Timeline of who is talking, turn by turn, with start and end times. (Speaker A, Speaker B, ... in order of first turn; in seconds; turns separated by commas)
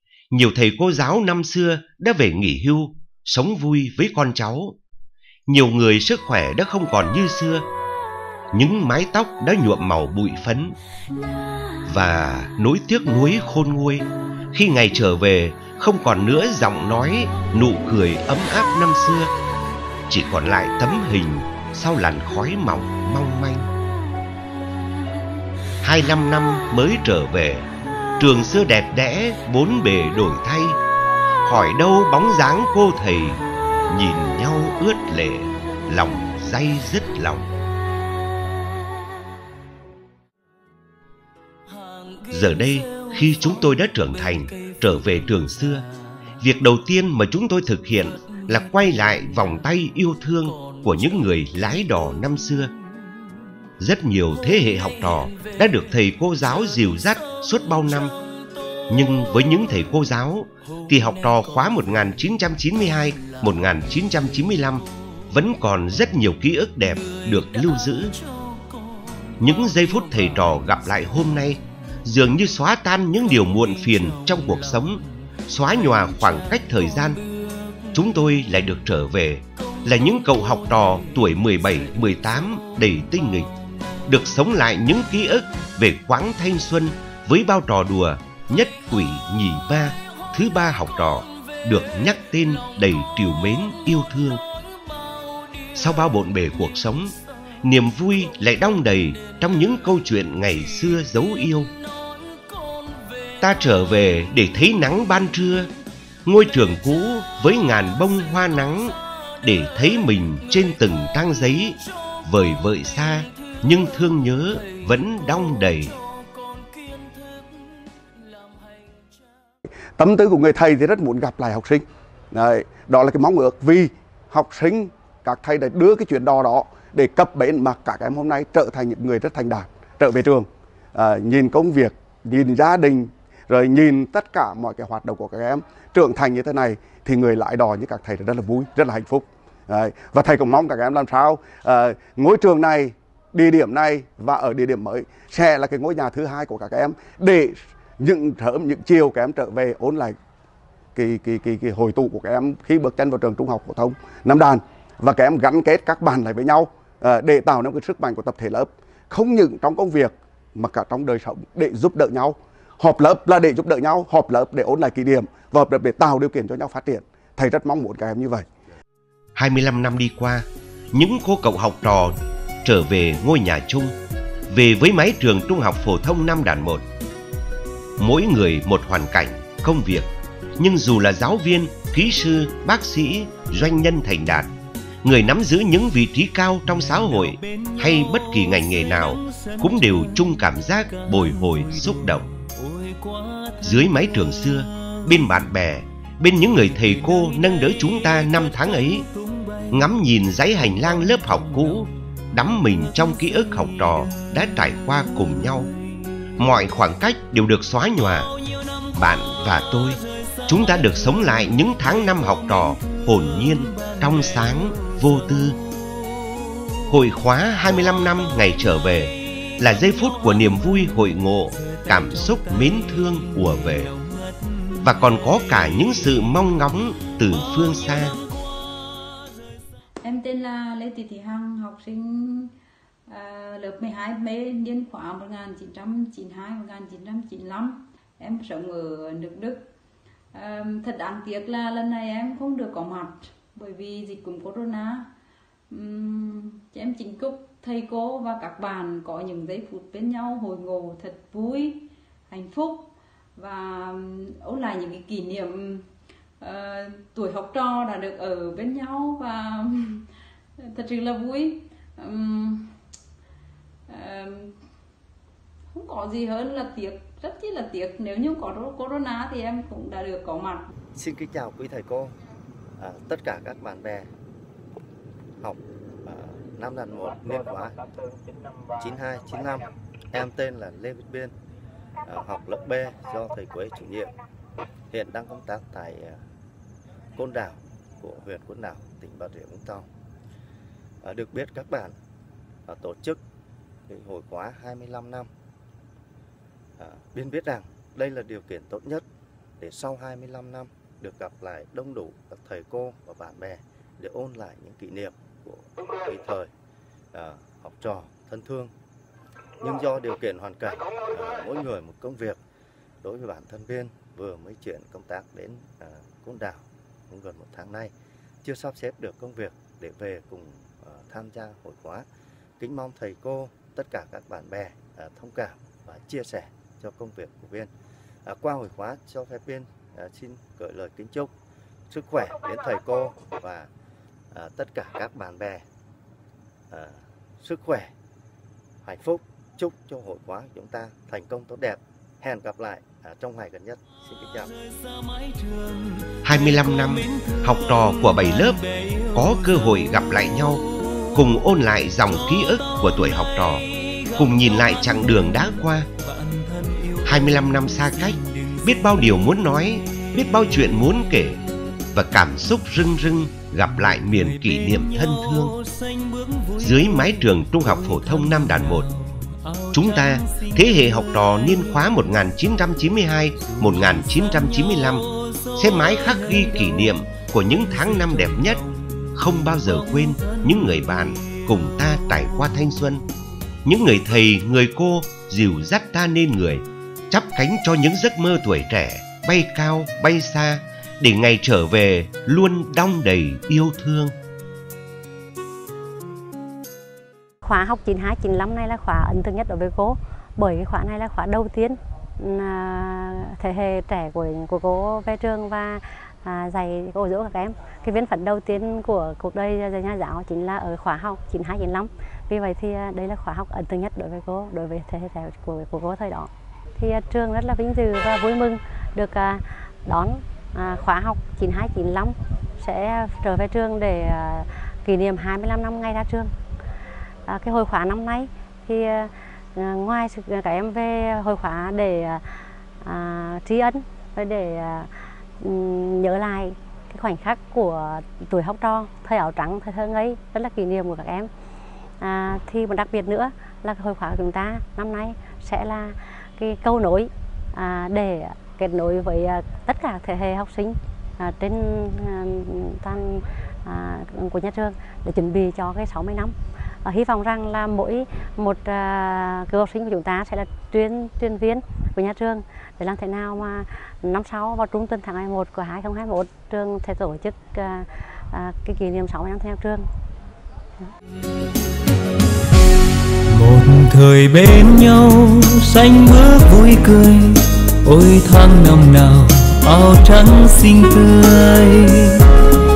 Speaker A: 0.3-4.8, Speaker A: 5.5-7.6, Speaker A: 8.5-10.8, Speaker A: 11.9-19.3, Speaker A: 20.1-23.7, Speaker A: 25.8-27.7, Speaker A: 28.2-30.8, Speaker A: 31.4-37.5, Speaker A: 42.3-45.8, Speaker A: 46.4-52.7, Speaker A: 53.8-58.1, Speaker A: 58.9-68.2, Speaker A: 69.4-77.2, Speaker A: 77.9-83.5, Speaker A: 84.1-94.4, Speaker A: 95.7-101.7, Speaker A: 103.4-105.7, Speaker A: 106.2-115.9, Speaker B: 120.0-150.2, Speaker B: 150.9-168.4, Speaker A: 169.3-173.9, Speaker A: 174.5-176.8, Speaker A: 178.0-184.5, Speaker A: 185.0-192.2, Speaker C: 192.5-193.6, Speaker A: 193.6-199.0, Speaker C: 199.2-199.7, Speaker A: 199.7-205.7, Speaker A: 206.4-208.3, Speaker A: 208.9-215.6, Speaker A: 216.9-223.9, Speaker A: 224.8-228.1, Speaker D: 230.0-232.5, Speaker D: 233.1-239.7, Speaker D: 240.3-245.1, Speaker D: 245.7-255.9, Speaker D: 256.4-260.1, Speaker D: 260.6-262.7, Speaker D: 263.9-264.6, Speaker D: 265.7-270.7, Speaker E: 270.9-272.1, Speaker E: 272.8-274.1, Speaker E: 275.4-277.8, Speaker E: 278.8-281.3, Speaker E: 282.0-284.1, Speaker E: 284.9-286.2, Speaker E: 287.2-289.9, Speaker E: 291.0-292.0, Speaker E: 292.7-293.2, Speaker E: 293.9-295.3, Speaker E: 296.8-299.0, Speaker E: 299.6-306.5, Speaker E: 307.1-308.7, Speaker E: 309.6-312.4, Speaker E: 313.0-317.9, Speaker E: 318.4-322.1, Speaker E: 322.6-327.7, Speaker E: 328.2-331.3, Speaker E: 331.9-333.7, Speaker E: 334.3-335.6, Speaker E: 336.7-337.9, Speaker E: 338.8-344.5, Speaker A: 346.2-350.6, Speaker A: 351.1-353.6, Speaker A: 354.2-355.9, Speaker C: 356.1-357.1, Speaker A: 357.0-361.4, Speaker A: 361.9-365.5, Speaker C: 365.5-366.6, Speaker A: 366.6-368.9, Speaker C: 367.9-368.5, Speaker C: 369.0-370.3, Speaker A: 369.7-383.0, Speaker A: 383.6-394.1, Speaker F: 397.4-426.3, Speaker F: 427.3-432.3, Speaker F: 432.8-441.3, Speaker F: 442.0-469.9, Speaker C: 473.3-482.3